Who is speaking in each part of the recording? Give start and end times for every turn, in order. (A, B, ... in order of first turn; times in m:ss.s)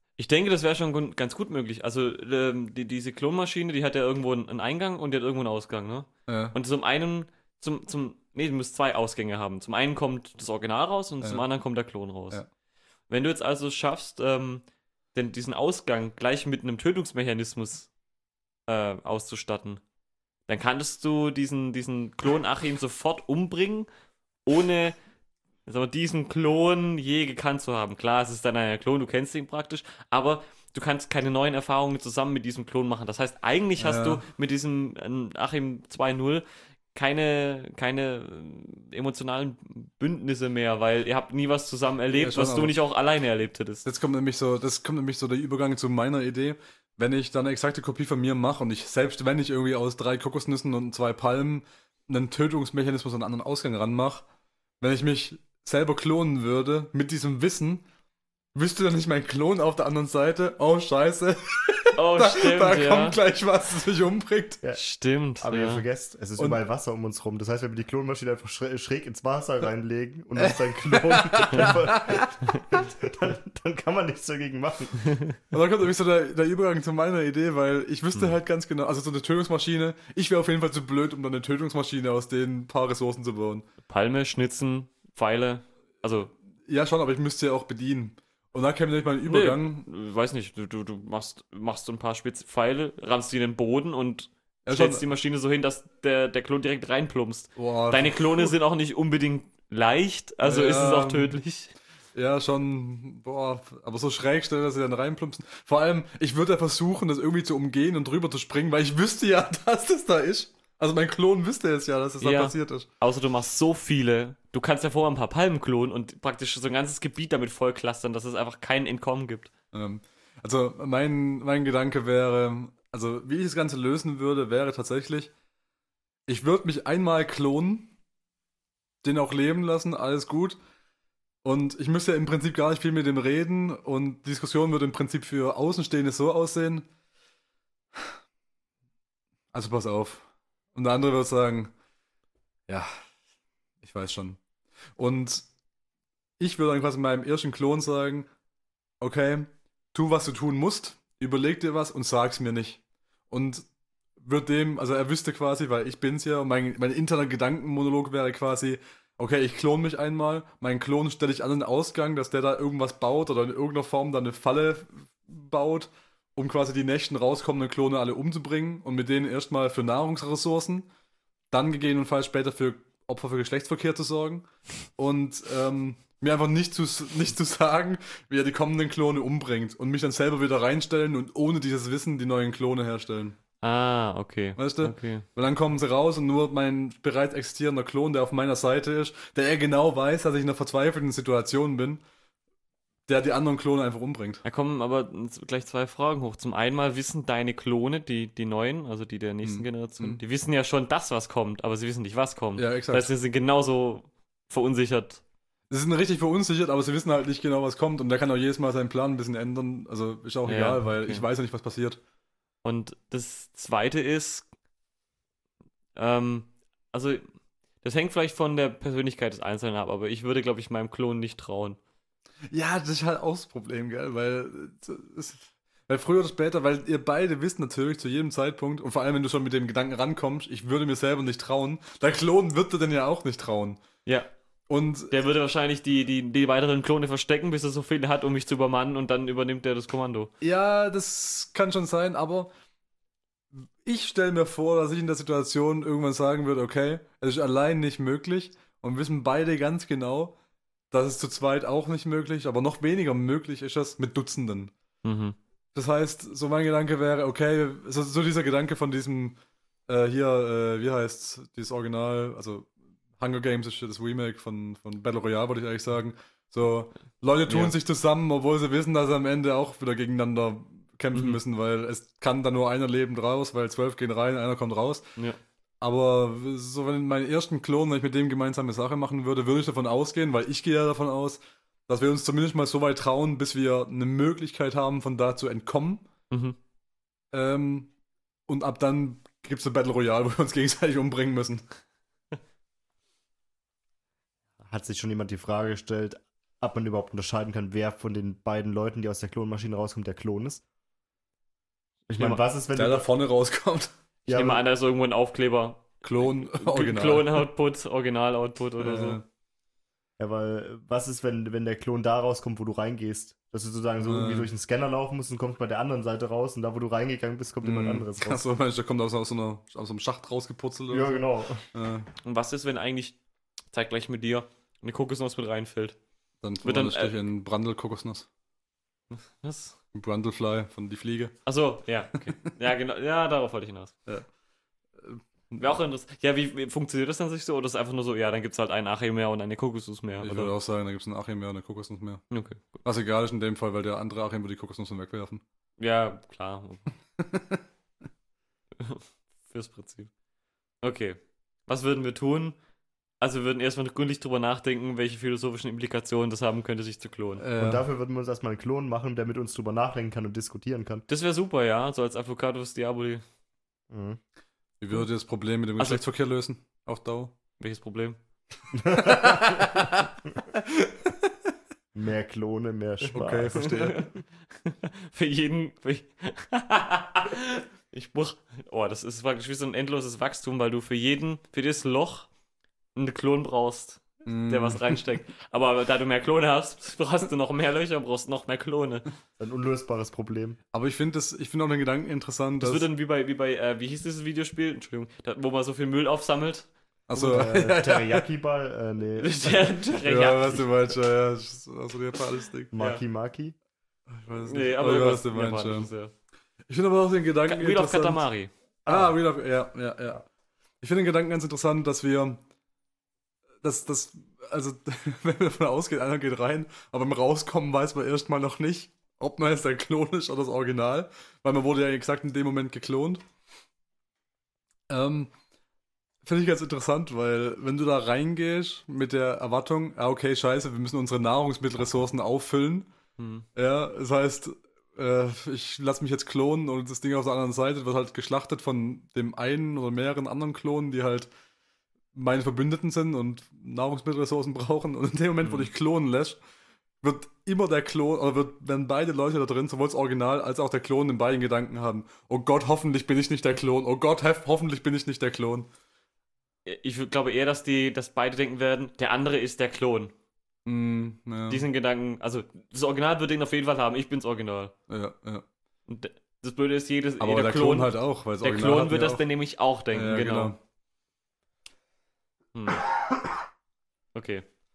0:00.2-0:12.4 A
0:06.3-0:06.6 B
0:13.1-0:17.9 A
0:18.7-0:19.8 A
0:20.5-0:23.9 A
0:24.5-0:25.0 A
0:25.7-0:43.9 A
0:33.8-0:34.2 B
0:42.2-0:42.7 B
0:43.8-0:54.2 B
0:54.8-0:57.8 B
0:58.5-1:04.6 B
1:02.0-1:03.2 A
1:04.8-1:05.8 A
1:05.4-1:15.0 C
1:10.4-1:12.2 B
1:15.5-1:23.7 B
1:23.9-1:26.3 A
1:26.7-1:29.9 B
1:29.3-1:41.8 A
1:34.7-1:35.0 B
1:37.6-1:38.5 B
1:40.4-1:41.4 B
1:42.2-1:52.9 B
1:52.2-1:59.5 A
1:59.7-2:05.3 B
2:06.3-2:07.9 B
2:09.0-2:10.6 B
2:11.4-2:16.9 B
2:19.5-2:21.7 B
2:22.7-2:23.0 B
2:23.8-2:24.4 B
2:25.0-2:25.5 B
2:26.4-2:28.3 B
2:29.0-2:33.7 B
2:34.2-2:50.9 B
2:51.5-3:03.4 B
3:03.6-3:05.3 A
3:04.6-3:12.0 B
3:13.1-3:14.4 B
3:14.4-3:25.2 A
3:19.4-3:20.2 B
3:22.6-3:23.1 B
3:25.7-3:32.0 B
3:30.5-3:31.2 A
3:32.6-3:34.5 A
3:36.0-3:37.2 A
3:37.8-3:41.8 A
3:42.5-3:53.8 B
3:54.7-3:55.1 B
3:55.1-4:00.3 A
4:00.4-4:02.5 B
4:03.6-4:10.4 B
4:10.9-4:14.7 B
4:15.0-4:15.4 A
4:15.8-4:19.4 B
4:19.9-4:35.2 B
4:27.5-4:27.7 A
4:31.1-4:31.4 A
4:35.8-4:46.1 B
4:46.3-4:46.6 A
4:47.3-4:47.9 B
4:48.5-4:51.6 B
4:54.6-5:00.6 C
5:02.1-5:03.1 C
5:02.8-5:03.9 B
5:04.3-5:04.6 C
5:04.3-5:09.2 A
5:06.0-5:07.5 B
5:08.8-5:09.2 B
5:10.2-5:18.4 C
5:14.0-5:14.5 B
5:17.6-5:22.1 B
5:20.9-5:21.6 C
5:22.2-5:23.2 A
5:23.7-5:26.0 A
5:26.4-5:28.3 B
5:26.6-5:27.1 A
5:29.1-5:29.8 A
5:29.9-5:31.4 B
5:31.5-5:34.0 A
5:35.0-5:35.7 B
5:35.6-5:40.5 A
5:40.2-5:42.2 B
5:42.3-5:42.8 A
5:42.8-5:45.4 B
5:45.8-5:46.9 A
5:47.2-5:47.6 B
5:48.8-5:50.1 A
5:50.8-5:52.6 A
5:53.2-5:57.4 A
5:57.4-5:57.8 B
5:57.6-6:01.0 C
6:01.1-6:03.2 A
6:03.9-6:04.2 C
6:04.8-6:07.3 B
6:07.6-6:08.2 A
6:08.7-6:09.9 C
6:09.0-6:09.9 B
6:10.7-6:11.1 B
6:11.9-6:14.0 C
6:13.1-6:14.1 B
6:13.6-6:22.3 A
6:23.0-6:29.1 A
6:24.2-6:25.0 B
6:29.4-6:30.6 C
6:30.7-6:32.8 B
6:32.6-6:36.7 A
6:37.1-6:38.3 B
6:37.1-6:40.0 C
6:39.2-6:40.8 A
6:40.1-6:42.7 B
6:42.7-6:43.6 C
6:42.8-6:43.0 A
6:44.1-6:45.9 B
6:44.4-6:46.1 A
6:46.7-6:48.2 B
6:47.5-6:48.5 A
6:48.9-6:49.2 C
6:48.9-6:50.3 B
6:50.8-6:52.4 B
6:53.6-7:03.2 B
7:04.9-7:05.3 B
7:06.2-7:12.9 B
7:13.2-7:13.5 A
7:13.6-7:21.3 B
7:22.1-7:26.4 B
7:25.4-7:25.7 A
7:27.0-7:35.7 B
7:36.7-7:40.1 A
7:40.7-7:41.6 B
7:41.5-7:44.7 A
7:44.9-7:45.4 B
7:45.9-7:50.6 A
7:47.2-7:49.3 B
7:49.9-7:50.6 B
7:52.6-7:52.8 A
7:54.2-7:54.4 A